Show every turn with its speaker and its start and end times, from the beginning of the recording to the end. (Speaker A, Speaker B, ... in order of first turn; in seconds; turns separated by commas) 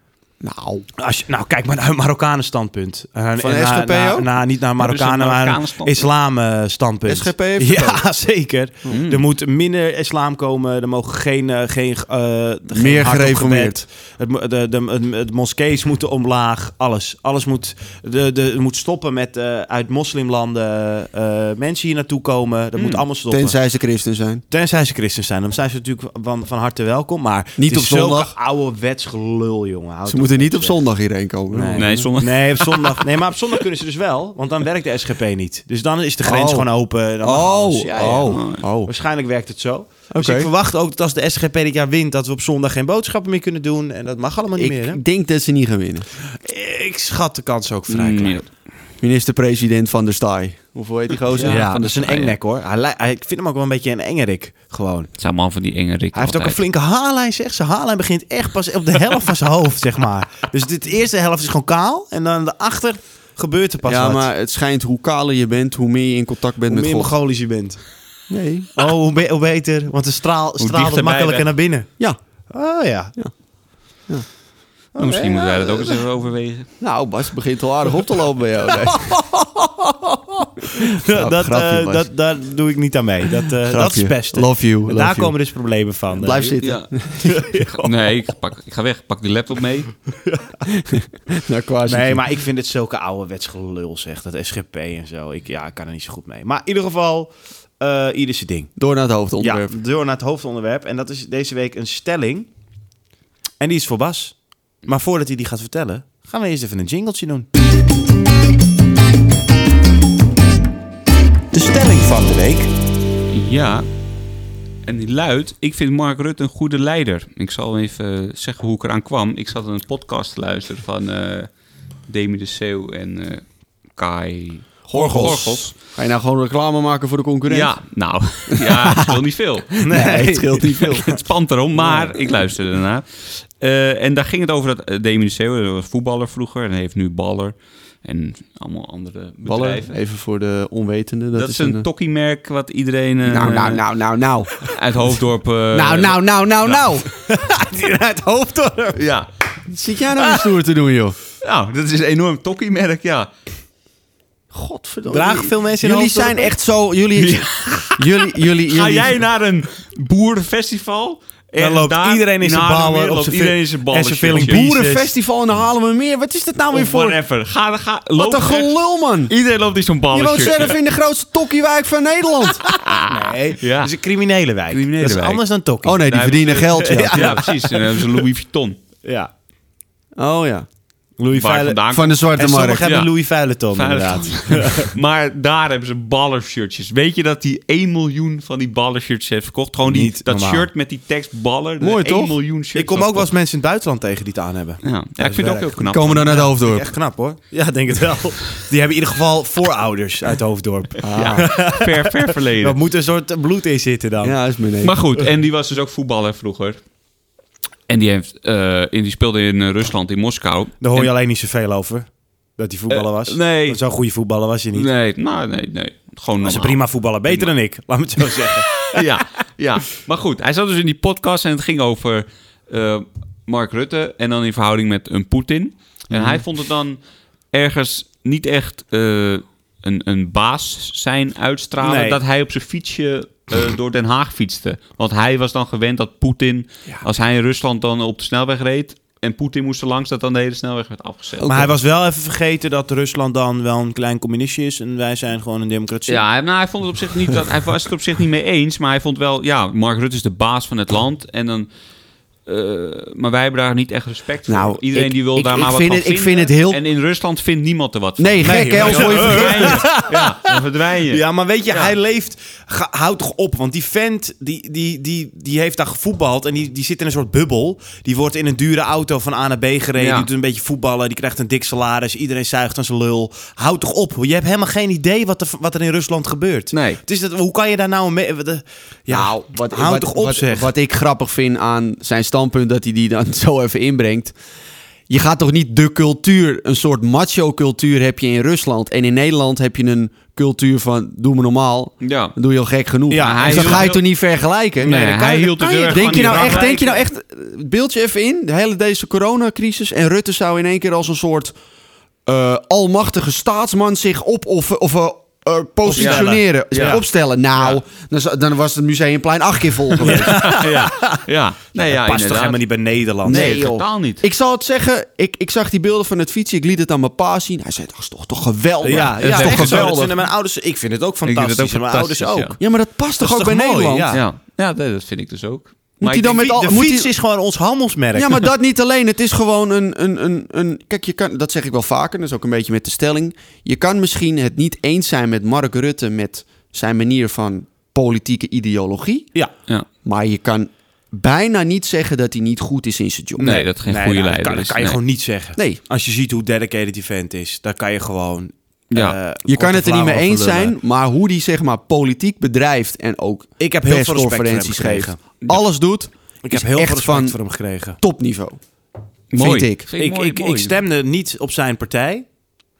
Speaker A: 0.4-0.8, Speaker B: 1.0-23.6, Speaker A: 3.4-4.3, Speaker C: 4.8-6.1, Speaker A: 7.1-8.0, Speaker C: 8.9-9.2, Speaker A: 12.7-13.8, Speaker C: 22.8-23.0, Speaker A: 23.3-24.4, Speaker B: 24.5-30.8, Speaker A: 27.6-28.3, Speaker A: 30.1-32.1, Speaker B: 31.5-45.0, Speaker C: 31.8-33.1, Speaker A: 36.2-36.7, Speaker A: 37.2-38.9, Speaker C: 38.0-38.6, Speaker A: 40.1-40.5, Speaker A: 44.5-46.1, Speaker B: 46.3-48.4, Speaker C: 47.9-48.5, Speaker A: 49.0-51.6, Speaker C: 51.3-52.4, Speaker B: 51.4-55.1, Speaker C: 55.2-56.6, Speaker B: 56.1-64.3, Speaker A: 63.8-67.1, Speaker B: 66.7-67.8, Speaker A: 68.3-68.7, Speaker B: 68.8-71.9, Speaker C: 70.6-71.5, Speaker B: 72.5-73.2, Speaker B: 75.0-75.9, Speaker C: 75.0-76.7, Speaker A: 76.8-79.1, Speaker B: 78.9-79.7, Speaker A: 80.6-82.0, Speaker B: 80.7-86.6, Speaker A: 83.7-85.3, Speaker A: 86.1-87.4, Speaker C: 86.6-86.9, Speaker B: 87.2-87.9, Speaker C: 87.8-89.9, Speaker A: 90.7-92.3, Speaker B: 91.9-98.7, Speaker A: 98.8-99.7, Speaker B: 99.4-102.5, Speaker B: 103.6-107.5, Speaker B: 111.5-112.7, Speaker C: 113.3-113.9, Speaker C: 114.8-121.5, Speaker C: 122.1-125.7, Speaker A: 124.9-127.7, Speaker C: 127.5-130.1, Speaker A: 128.5-129.2, Speaker B: 129.8-131.2, Speaker A: 129.9-131.1, Speaker C: 130.9-140.0, Speaker A: 131.8-132.1, Speaker A: 139.4-141.9, Speaker C: 141.4-143.8, Speaker A: 143.2-144.8, Speaker C: 144.6-146.9, Speaker A: 145.7-147.1, Speaker B: 147.2-149.0, Speaker C: 148.9-149.3, Speaker A: 149.7-151.2, Speaker C: 151.4-153.3, Speaker A: 154.5-159.2, Speaker B: 155.1-156.5, Speaker C: 157.2-164.6, Speaker B: 161.6-165.1, Speaker A: 164.3-167.2, Speaker C: 166.7-170.8, Speaker A: 168.2-169.3, Speaker A: 170.1-172.7, Speaker C: 172.6-173.9, Speaker B: 173.0-176.1, Speaker C: 174.7-175.4, Speaker A: 175.8-177.4, Speaker C: 176.1-178.8, Speaker B: 176.8-178.2, Speaker B: 179.0-179.3, Speaker A: 180.2-180.7, Speaker B: 181.2-181.8, Speaker C: 181.3-182.2, Speaker A: 181.9-182.8, Speaker B: 182.4-184.9, Speaker C: 182.8-183.1, Speaker C: 183.7-193.3, Speaker B: 189.8-190.7, Speaker A: 191.8-192.3, Speaker B: 192.7-195.7, Speaker C: 194.8-196.5, Speaker A: 195.8-196.8, Speaker B: 196.3-204.3, Speaker A: 201.0-201.5, Speaker C: 201.1-202.8, Speaker A: 204.2-204.9, Speaker C: 204.8-206.8, Speaker C: 207.9-211.1, Speaker B: 210.8-212.1, Speaker B: 212.6-214.9, Speaker C: 212.9-213.8, Speaker C: 214.7-217.5, Speaker B: 216.4-219.1, Speaker C: 218.3-227.0, Speaker B: 226.1-226.4, Speaker C: 227.5-241.7, Speaker B: 231.8-232.2, Speaker B: 241.4-246.2, Speaker A: 241.4-241.7, Speaker C: 246.1-251.7, Speaker C: 252.4-261.9, Speaker A: 254.5-256.8, Speaker A: 258.2-259.8, Speaker B: 258.4-280.7, Speaker C: 270.0-270.3, Speaker C: 276.7-277.0, Speaker A: 279.1-284.3, Speaker A: 285.1-295.0, Speaker C: 292.0-292.3, Speaker B: 293.1-294.0, Speaker C: 293.2-294.0, Speaker C: 294.8-297.0, Speaker B: 294.8-296.9, Speaker A: 295.9-301.5, Speaker A: 302.2-310.4, Speaker B: 305.8-307.0, Speaker C: 305.9-307.0, Speaker C: 310.0-312.6, Speaker B: 310.0-311.2, Speaker B: 311.8-313.6, Speaker C: 313.2-314.2, Speaker A: 313.2-320.1, Speaker B: 318.8-322.6, Speaker C: 318.9-320.1, Speaker C: 321.2-322.5, Speaker A: 322.6-324.1, Speaker B: 323.2-324.2, Speaker C: 324.1-326.4, Speaker A: 326.0-327.1, Speaker B: 326.3-328.4, Speaker A: 328.1-339.3, Speaker A: 340.0-343.5, Speaker C: 343.4-345.0, Speaker B: 343.4-350.7, Speaker C: 348.9-349.2, Speaker A: 349.4-357.4, Speaker B: 353.6-355.2, Speaker B: 356.4-358.0, Speaker A: 358.0-358.6, Speaker C: 359.3-360.8, Speaker A: 359.3-359.9, Speaker B: 360.0-362.2